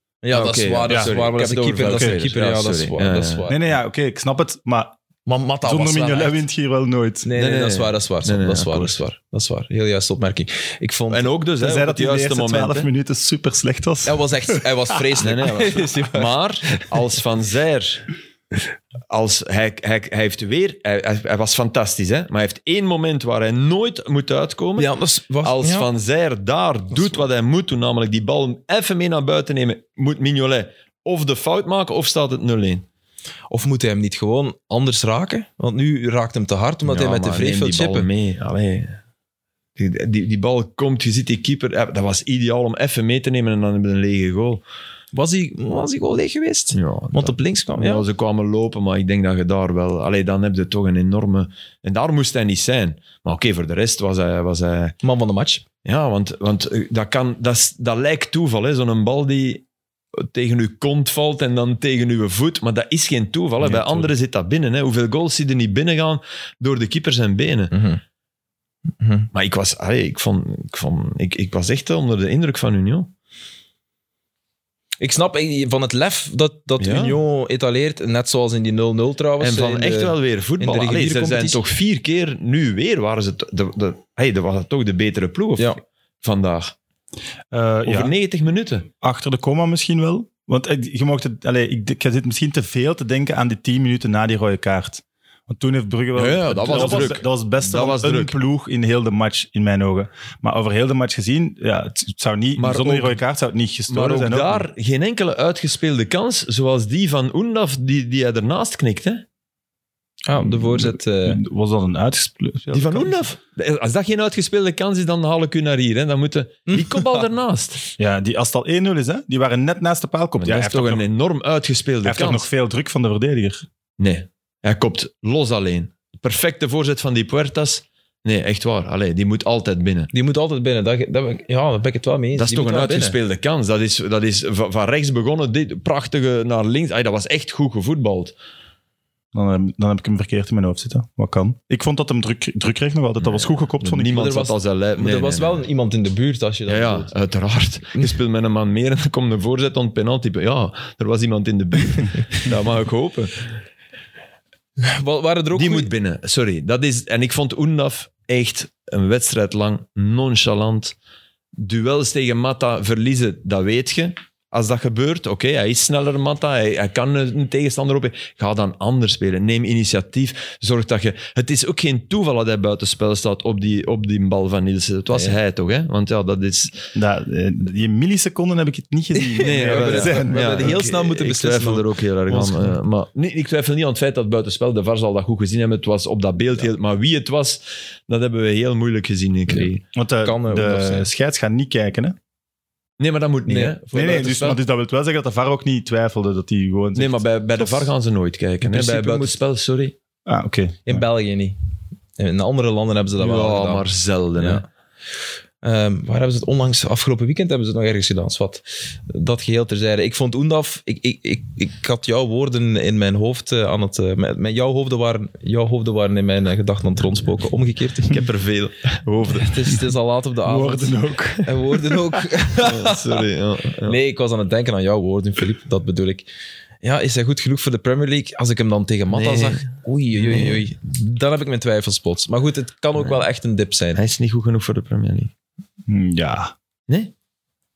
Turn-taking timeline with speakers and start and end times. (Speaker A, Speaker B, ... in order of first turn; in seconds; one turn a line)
Speaker A: 0.2-3.6
Speaker B: 0.3-3.5
Speaker C: 0.9-1.1
Speaker C: 1.8-2.2
Speaker C: 3.5-5.0
Speaker A: 5.3-6.4
Speaker C: 5.6-7.3
Speaker A: 7.2-11.3
Speaker B: 7.4-9.0
Speaker B: 11.1-12.9
Speaker C: 11.6-15.0
Speaker A: 14.1-16.9
Speaker B: 15.2-18.1
Speaker B: 19.1-32.9
Speaker A: 24.8-25.9
Speaker A: 33.5-38.1
Speaker B: 36.9-39.0
Speaker B: 39.8-44.6
Speaker A: 45.1-48.0
Speaker B: 46.7-55.0
Speaker A: 55.0-55.6
Speaker B: 55.8-59.6
Speaker B: 60.2-67.7
Speaker A: 63.7-64.0
Speaker A: 67.7-68.0
Speaker A: 69.0-69.3
Speaker B: 69.3-73.1
Speaker A: 75.0-81.6
Speaker B: 76.8-77.2
Speaker B: 79.4-86.8
Speaker C: 87.5-88.1
Speaker B: 87.8-88.9
Speaker C: 89.0-104.7
Speaker B: 96.2-98.4
Speaker B: 102.6-103.2
Speaker B: 103.9-109.2
Speaker A: 110.2-111.4
Speaker C: 110.4-113.2
Speaker B: 112.7-117.9
Speaker A: 116.7-117.2
Speaker C: 118.0-121.0
Speaker B: 120.4-122.5
Speaker C: 122.0-123.7
Speaker B: 124.0-130.1
Speaker A: 130.1-133.2
Speaker B: 132.4-138.3
Speaker C: 139.3-144.2
Speaker B: 143.2-145.7
Speaker A: 144.1-147.1
Speaker B: 146.7-153.5
Speaker A: 154.8-155.9
Speaker B: 155.5-160.9
Speaker B: 161.6-176.9
Speaker C: 176.9-180.8
Speaker A: 179.2-182.8
Speaker B: 179.4-189.8
Speaker C: 189.9-192.2
Speaker A: 190.2-191.1
Speaker B: 193.0-194.6
Speaker A: 193.5-193.8
Speaker C: 193.9-197.9
Speaker B: 197.0-199.9
Speaker A: 198.6-199.4
Speaker C: 200.3-201.0
Speaker A: 200.9-201.6
Speaker A: 202.2-203.8
Speaker B: 203.2-204.7
Speaker A: 204.4-204.7
Speaker A: 205.6-218.2
Speaker B: 218.1-219.6
Speaker A: 219.4-223.2
Speaker C: 220.5-222.2
Speaker B: 222.6-224.0
Speaker A: 223.9-226.3
Speaker A: 226.8-234.0
Speaker B: 229.1-229.7
Speaker B: 230.2-230.6
Speaker B: 233.9-235.3
Speaker C: 235.9-236.5